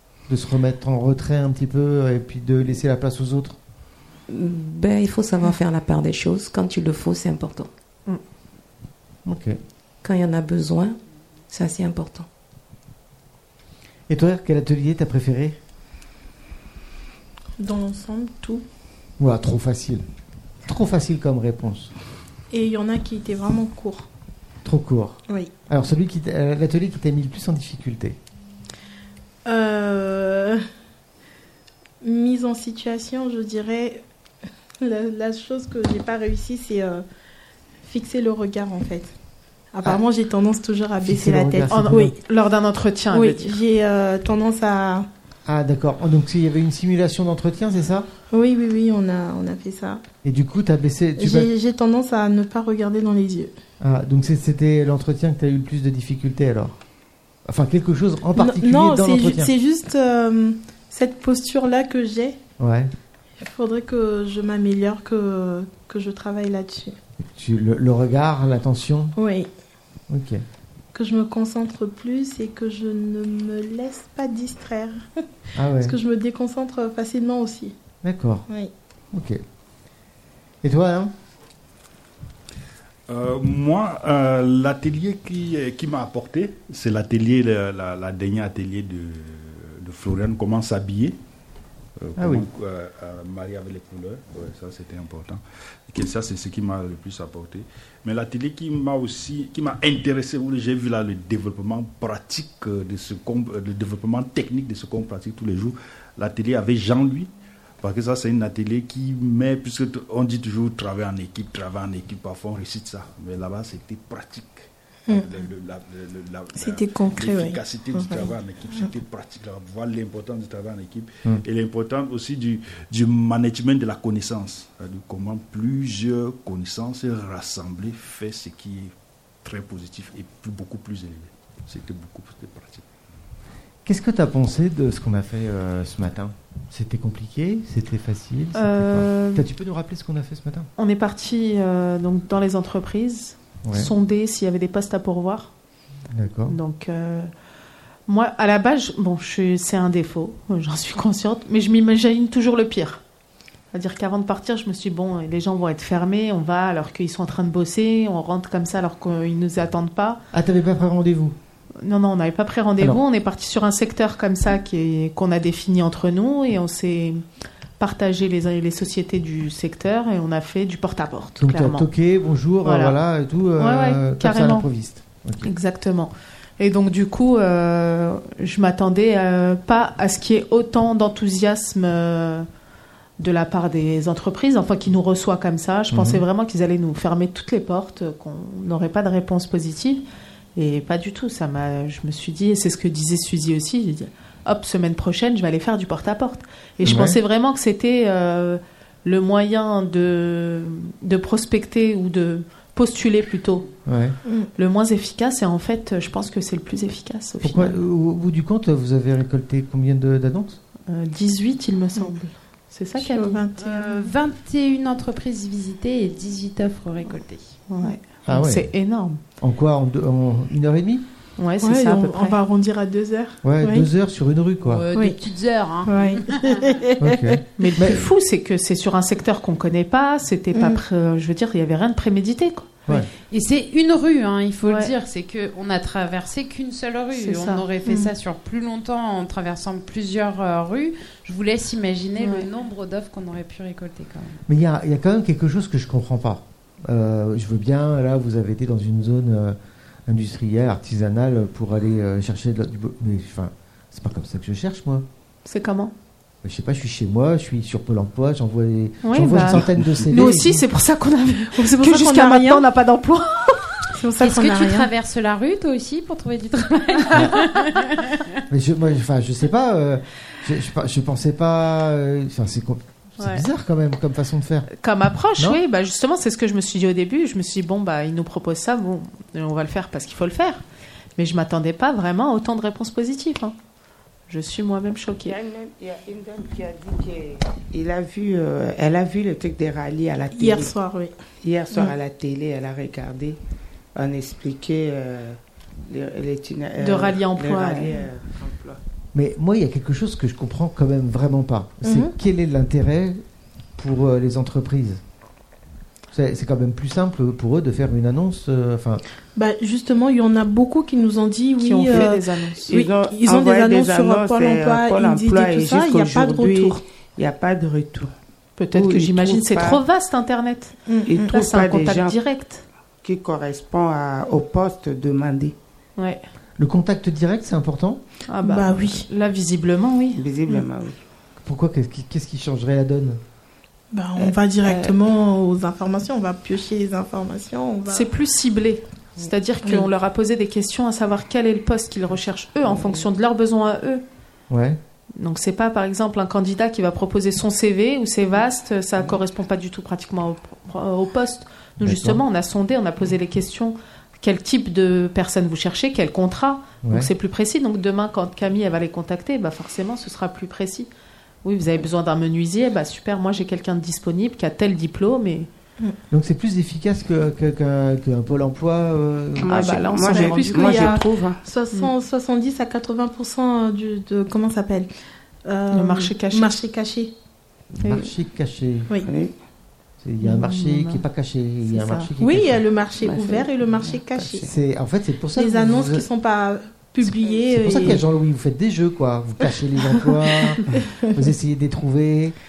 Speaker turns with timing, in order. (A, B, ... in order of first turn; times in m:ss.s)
0:00.3-0:03.6 A
0:04.3-0:07.7 B
0:09.2-0:09.6 A
0:10.0-0:11.0 B
0:11.5-0:12.3 B
0:14.1-0:15.6 A
0:17.6-0:18.6 C
0:19.2-0:20.0 A
0:20.6-0:21.9 A
0:22.5-0:24.1 C
0:24.6-0:28.2 A
0:29.4-0:30.6 C
0:32.0-0:34.0 C
0:34.8-0:37.0 C
0:37.8-0:39.1 C
0:39.7-0:42.1 C
0:41.0-0:42.1 A
0:41.7-0:43.6 D
0:43.1-0:45.1 C
0:45.4-0:48.1 A
0:48.3-0:50.0 C
0:50.2-0:51.5 A
0:51.2-0:53.5 C
0:53.8-0:56.8 A
0:57.4-0:59.5 A
0:58.4-1:02.4 C
1:02.6-1:02.9 A
1:03.4-1:07.0 C
1:07.2-1:09.2 A
1:09.2-1:09.5 C
1:10.1-1:10.4 A
1:10.9-1:15.1 C
1:15.6-1:16.0 A
1:15.8-1:17.7 C
1:18.0-1:18.4 A
1:19.1-1:19.4 A
1:20.6-1:21.1 A
1:23.1-1:31.2 E
1:32.0-1:47.3 E
1:32.2-1:32.5 A
1:47.8-2:08.9 E
1:56.6-1:58.9 C
2:09.4-2:12.9 E
2:13.8-2:20.7 A
2:18.6-2:19.5 D
2:20.8-2:25.5 D
2:23.6-2:23.9 A
2:26.1-2:26.6 A
2:26.5-2:27.3 D
2:28.1-2:33.0 D
2:33.7-2:40.2 D
2:40.3-2:41.4 A
2:41.8-2:47.2 D
2:47.8-2:51.9 D
2:51.4-2:55.5 A
2:52.6-2:53.0 D
2:53.6-2:54.7 D
2:55.4-3:02.5 D
3:03.2-3:10.0 D
3:05.9-3:06.2 A
3:10.6-3:23.7 D
3:16.8-3:17.2 A
3:23.9-3:24.2 A
3:24.6-3:27.8 D
3:27.4-3:30.6 A
3:30.9-3:33.4 D
3:33.0-3:34.1 C
3:33.6-3:37.5 F
3:37.7-3:39.2 D
3:38.3-3:38.7 A
3:39.4-3:41.0 A
3:41.4-3:42.4 D
3:41.6-3:43.9 C
3:43.4-3:44.8 A
3:44.6-3:46.5 F
3:44.9-3:45.2 C
3:45.9-3:47.4 C
3:47.0-3:48.1 A
3:47.6-3:52.9 D
3:50.5-3:50.8 C
3:53.2-4:04.4 F
3:54.6-3:54.9 D
3:57.1-3:57.6 D
3:57.9-3:58.1 C
4:02.2-4:02.5 D
4:04.5-4:15.1 A
4:15.4-4:15.9 D
4:16.4-4:20.6 A
4:19.0-4:23.9 D
4:19.6-4:20.1 E
4:21.6-4:22.6 C
4:23.9-4:24.9 C
4:24.2-4:28.1 F
4:27.1-4:27.4 A
4:28.5-4:34.7 A
4:33.2-4:33.4 D
4:34.7-4:40.6 D
4:41.2-4:43.6 D
4:44.3-4:45.4 D
4:45.2-4:50.7 G
4:50.3-4:51.1 C
4:51.4-4:53.4 G
4:54.0-4:58.8 G
4:56.8-4:57.9 D
4:59.1-5:03.2 A
5:01.8-5:02.1 C
5:03.8-5:05.0 A
5:06.1-5:09.0 A
5:09.4-5:16.8 C
5:11.6-5:12.6 D
5:12.7-5:18.1 G
5:18.6-5:20.8 D
5:18.7-5:19.8 G
5:20.9-5:21.3 C
5:21.1-5:22.2 G
5:21.3-5:22.6 D
5:23.0-5:25.6 G
5:26.0-5:26.3 D
5:26.6-5:28.0 A
5:28.3-5:30.2 D
5:28.4-5:29.1 C
5:30.2-5:31.0 G
5:31.4-5:33.2 A
5:33.9-5:38.1 C
5:34.2-5:35.0 G
5:37.9-5:44.0 D
5:42.7-5:43.0 G
5:44.5-5:44.8 A
5:45.2-6:00.9 D
5:51.8-5:52.2 A
5:56.8-5:57.1 A
6:01.4-6:05.5 D
6:06.1-6:09.7 A
6:09.4-6:11.4 G
6:09.5-6:11.0 D
6:10.0-6:14.9 C
6:15.4-6:17.1 C
6:15.7-6:16.6 D
6:17.8-6:18.9 A
6:17.8-6:18.1 D
6:19.0-6:19.4 G
6:20.0-6:22.6 A
6:20.2-6:21.0 D
6:21.7-6:22.1 D
6:22.2-6:24.5 C
6:23.0-6:24.5 G
6:24.4-6:26.1 A
6:25.4-6:28.0 C
6:27.0-6:32.4 A